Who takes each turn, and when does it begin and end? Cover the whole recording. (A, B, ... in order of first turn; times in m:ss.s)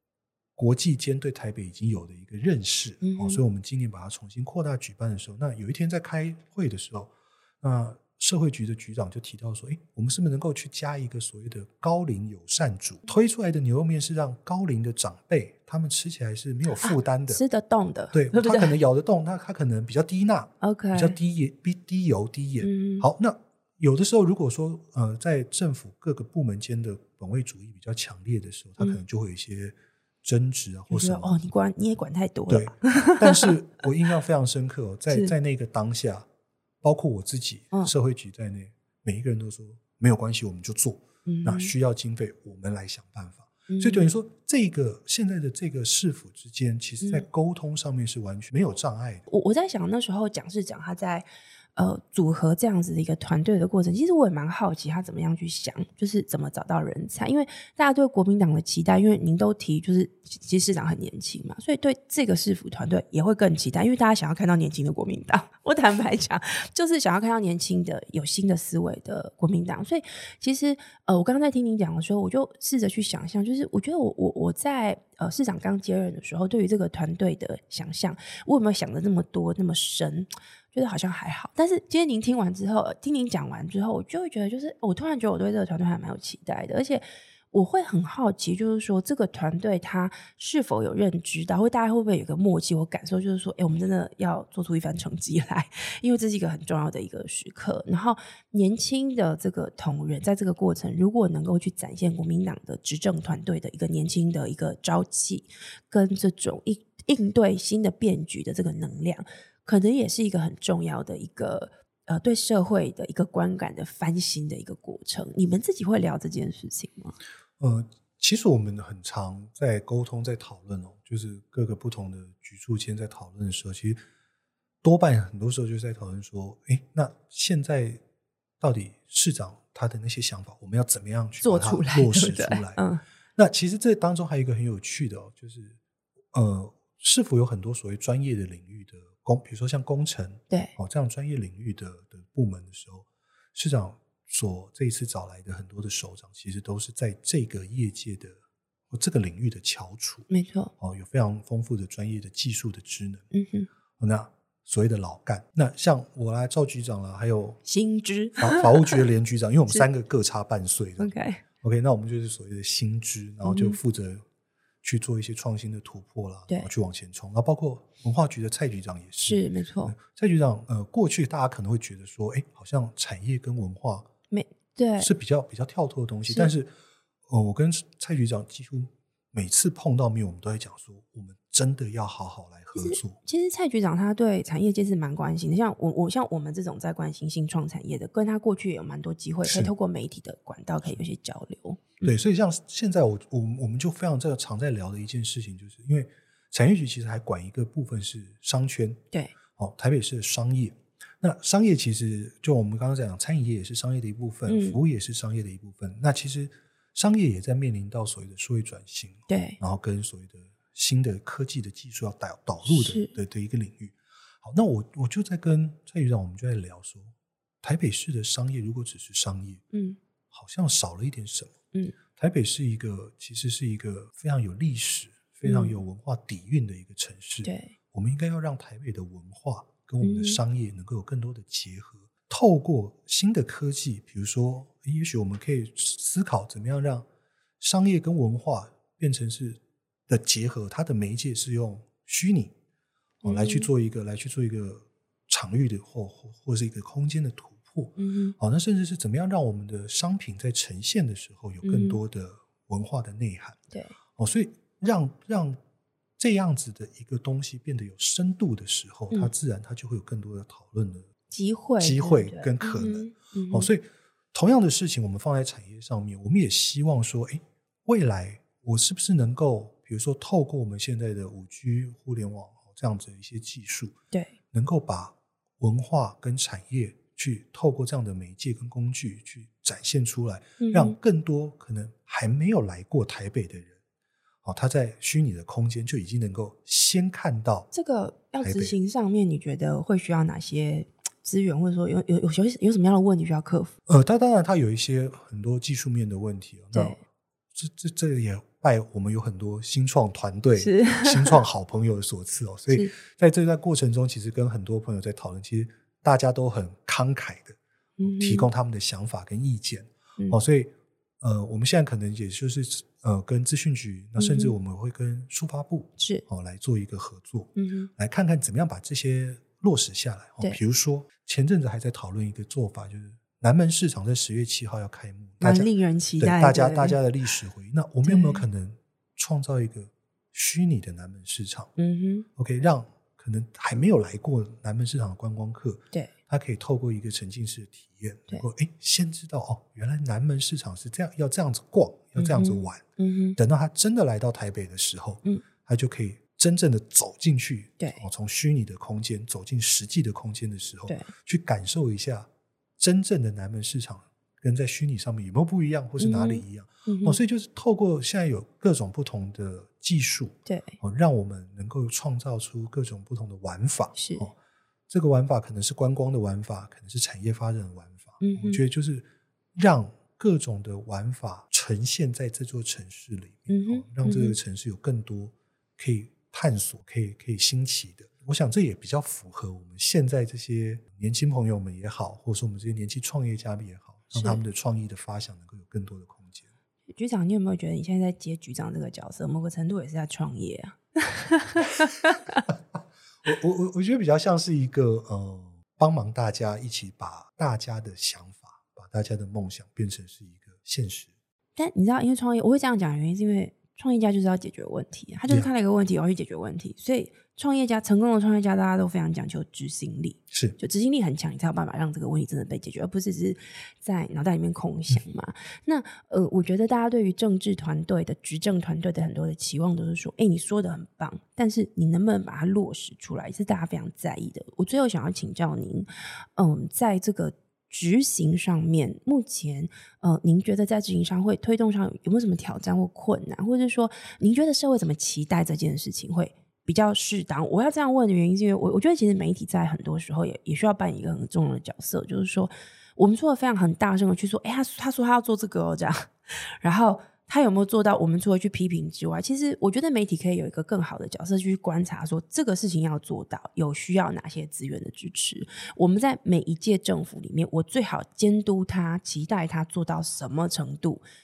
0:00.6-0:17.4 A
0:03.0-0:03.4 B
0:16.8-0:18.8 B
0:18.1-0:31.4 A
0:20.6-0:21.2 B
0:22.6-0:23.1 B
0:30.9-0:33.5 B
0:32.5-0:36.3 A
0:36.8-0:49.2 A
0:41.3-0:41.7 B
0:43.7-0:44.1 B
0:49.3-1:57.2 B
1:57.6-2:04.0 A
2:04.8-2:08.0 A
2:08.6-2:12.8 A
2:11.4-2:13.0 B
2:13.4-2:15.8 A
2:16.3-2:28.3 A
2:28.9-2:33.2 A
2:30.3-2:30.7 B
2:33.3-2:33.7 B
2:34.0-2:37.6 A
2:37.6-2:39.0 B
2:38.4-2:41.1 A
2:41.0-2:41.4 B
2:41.6-2:44.2 A
2:43.4-2:43.8 B
2:44.8-2:54.1 A
2:49.3-2:50.0 B
2:54.3-2:55.1 B
2:55.0-2:56.7 A
2:57.3-3:03.2 A
3:02.8-3:12.1 B
3:09.4-3:09.7 A
3:12.0-3:19.0 A
3:19.6-3:39.6 A
3:24.5-3:24.8 B
3:29.3-3:29.6 B
3:32.6-3:33.2 B
3:39.7-3:40.0 B
3:40.3-3:41.6 A
3:42.1-3:57.1 A
3:45.4-3:45.8 B
3:47.4-3:47.7 B
3:50.0-3:50.4 B
3:57.6-4:02.5 A
4:03.2-4:03.7 B
4:03.2-4:13.6 A
4:08.0-4:08.4 B
4:11.6-4:12.0 B
4:13.7-4:14.0 B
4:14.2-4:15.6 A
4:16.2-4:21.1 A
4:21.3-4:23.7 B
4:21.8-4:34.0 A
4:34.5-4:43.8 A
4:40.6-4:41.0 B
4:44.4-4:47.7 A
4:47.7-4:53.8 B
4:48.4-4:48.8 A
4:53.9-4:57.0 A
4:56.7-4:57.0 B
4:57.6-5:31.7 A
5:00.6-5:01.4 B
5:08.0-5:08.5 B
5:14.2-5:14.5 B
5:16.0-5:16.2 B
5:17.6-5:17.9 B
5:25.4-5:27.0 B
5:28.0-5:28.4 B
5:31.8-5:32.3 B
5:32.4-5:42.8 A
5:42.2-5:43.4 B
5:43.4-6:04.4 A
5:56.0-5:57.2 B
6:00.5-6:00.8 B
6:04.0-6:04.3 B
6:04.9-6:26.5 A
6:08.2-6:08.6 B
6:13.5-6:14.4 B
6:24.1-6:24.4 B
6:26.9-6:32.4 B
6:33.2-6:41.1 A
6:41.6-7:41.0 B
6:50.3-6:50.6 A